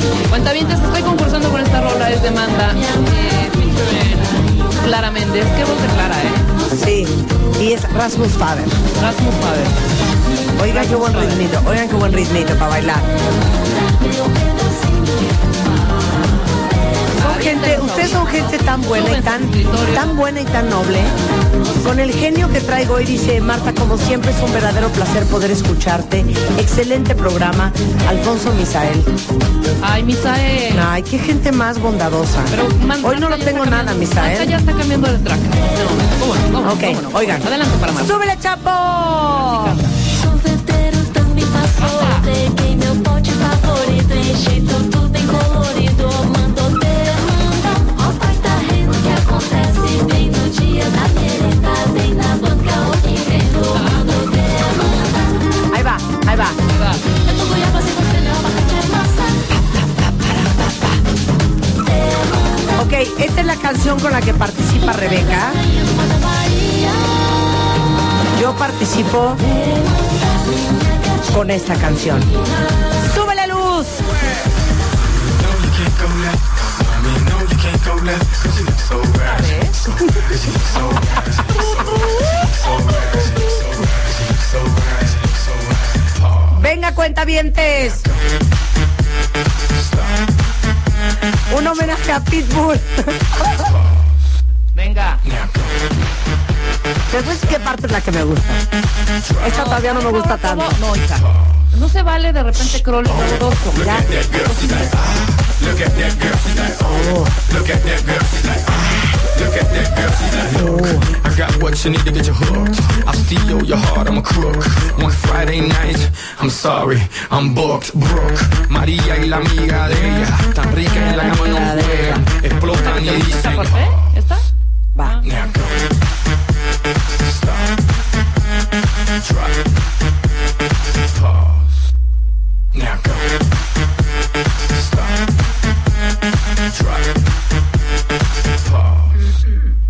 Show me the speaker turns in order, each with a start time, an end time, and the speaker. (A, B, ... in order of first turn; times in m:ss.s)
0:00.3-0:06.5 A
0:06.7-0:08.8 B
0:09.0-0:09.8 A
0:10.6-0:13.1 B
0:10.6-0:11.4 A
0:13.7-0:15.5 C
0:17.2-0:20.2 A
0:17.2-0:21.2 B
0:21.7-0:29.1 B
0:29.8-0:30.9 A
0:30.7-0:34.5 B
0:32.5-0:38.2 A
0:36.6-0:39.8 B
0:39.3-0:39.9 A
0:40.1-0:55.4 C
0:41.8-0:42.3 A
0:55.7-0:56.6 B
0:56.7-0:57.0 A
0:57.2-0:59.5 C
0:59.5-1:01.0 B
1:01.8-1:02.7 C
1:02.8-1:05.6 B
1:04.9-1:07.2 C
1:08.3-1:09.4 B
1:09.5-1:11.5 C
1:11.3-1:12.3 B
1:13.0-1:14.0 B
1:15.2-1:26.5 D
1:19.2-1:19.8 A
1:26.5-1:28.0 B
1:27.9-1:28.2 D
1:29.8-1:30.1 D
1:31.5-1:33.5 B
1:34.8-1:35.2 A
1:35.3-1:35.7 D
1:37.1-1:38.6 B
1:39.4-1:40.8 B
1:39.4-1:44.0 A
1:43.8-2:04.0 D
1:43.8-1:44.1 B
1:46.8-1:47.3 B
1:50.5-1:51.1 B
2:01.2-2:02.2 B
2:02.7-2:04.5 A
2:05.2-2:05.8 D
2:07.2-2:07.7 D
2:09.2-2:09.6 D
2:11.2-2:11.7 D
2:12.7-2:13.4 D
2:14.7-2:15.2 D
2:16.7-2:17.1 D
2:18.6-2:19.1 D